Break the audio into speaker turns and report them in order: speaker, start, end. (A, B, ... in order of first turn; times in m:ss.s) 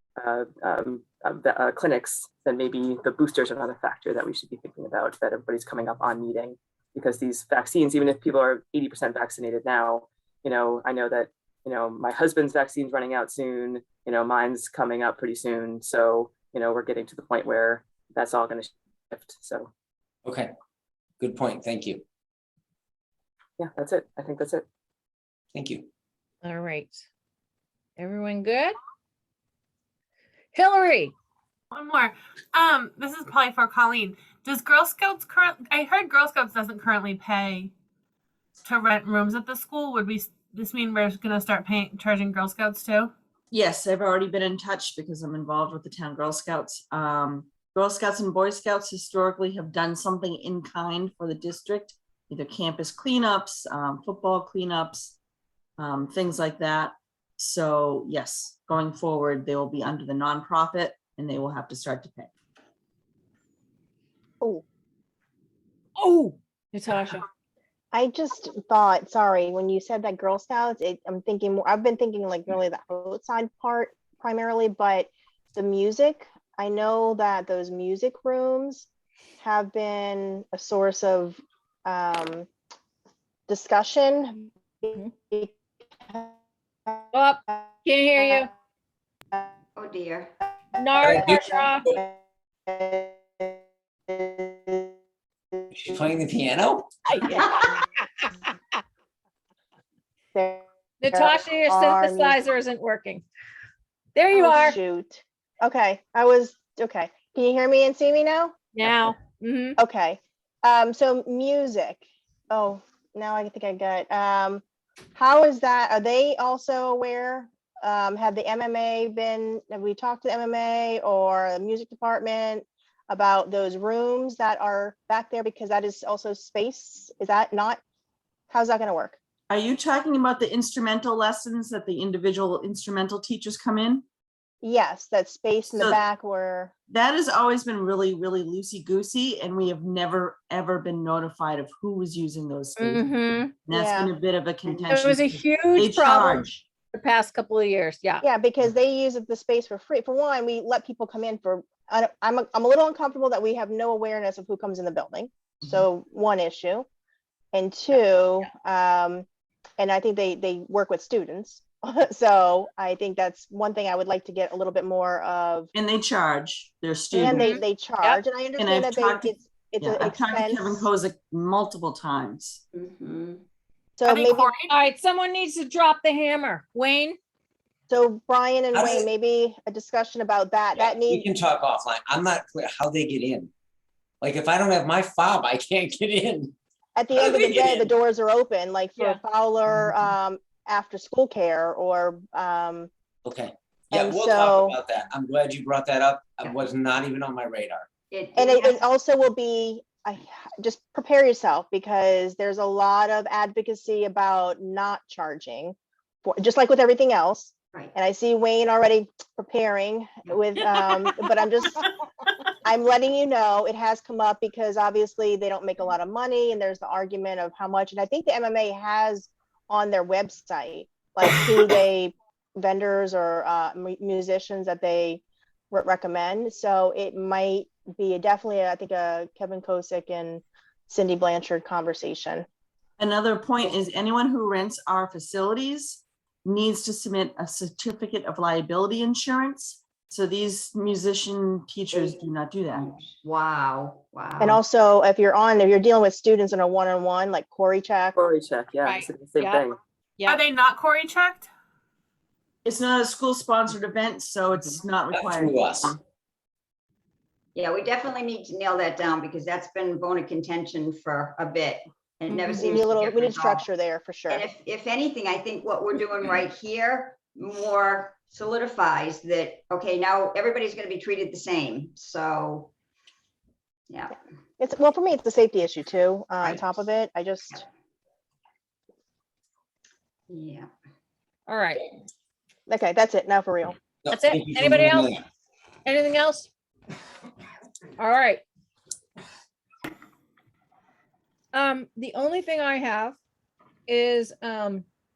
0:00.2-0:19.7 A
0:20.2-0:20.5 B
0:21.2-0:22.0 B
0:23.6-0:24.6 A
0:25.5-0:25.9 B
0:26.4-0:27.0 C
0:28.0-0:28.8 C
0:30.5-0:31.1 C
0:31.7-0:37.7 D
0:38.6-0:43.1 D
0:43.5-0:55.2 E
0:55.8-1:02.3 E
1:06.0-1:07.2 C
1:07.9-1:22.5 F
1:23.5-1:25.5 F
1:27.1-1:28.5 C
1:29.8-1:30.3 G
1:30.8-1:31.9 C
1:31.0-1:32.0 B
1:31.4-1:32.2 F
1:32.7-1:33.5 F
1:34.1-1:34.9 F
1:35.7-1:36.9 B
1:37.1-1:38.3 C
1:40.3-1:42.4 F
1:41.0-1:43.2 C
1:44.1-1:44.8 C
1:44.3-1:48.6 F
1:48.7-1:49.8 C
1:49.8-1:54.6 F
1:55.1-2:07.8 F
2:08.5-2:09.2 F
2:09.5-2:14.0 E
2:14.6-2:16.7 F
2:15.7-2:16.0 E
2:16.9-2:26.6 E
2:22.8-2:23.6 C
2:23.7-2:24.1 F
2:24.9-2:28.2 C
2:28.2-2:36.9 F
2:37.5-2:39.2 F
2:39.8-2:45.7 F
2:45.7-2:47.6 E
2:47.1-2:50.9 F
2:47.3-2:48.2 C
2:48.6-2:52.6 E
2:52.7-2:53.4 G
2:54.0-2:54.5 F
2:54.0-2:54.8 D
2:54.7-2:57.2 C
2:57.9-3:01.3 F
2:58.7-2:59.0 B
3:00.8-3:03.5 B
3:04.2-3:06.6 B
3:07.0-3:12.9 F
3:07.1-3:07.9 B
3:13.2-3:17.9 B
3:13.9-3:14.7 F
3:18.1-3:18.8 G
3:18.4-3:31.9 F
3:32.6-3:52.4 F
3:53.0-4:02.9 E
4:01.9-4:04.6 G
4:04.4-4:08.2 F
4:08.1-4:09.7 A
4:08.8-4:09.6 C
4:10.2-4:11.5 D
4:12.6-4:15.9 E
4:15.1-4:16.0 B
4:17.6-4:23.6 G
4:22.3-4:24.4 F
4:24.3-4:32.7 G
4:33.9-4:34.2 G
4:34.6-4:37.6 F
4:40.3-4:40.7 G
4:41.5-4:41.8 C
4:42.7-4:43.8 F
4:44.0-4:45.2 B
4:44.1-4:45.2 C
4:45.8-4:46.5 C
4:48.0-4:48.4 C
4:51.5-4:53.2 C
4:53.9-4:54.8 C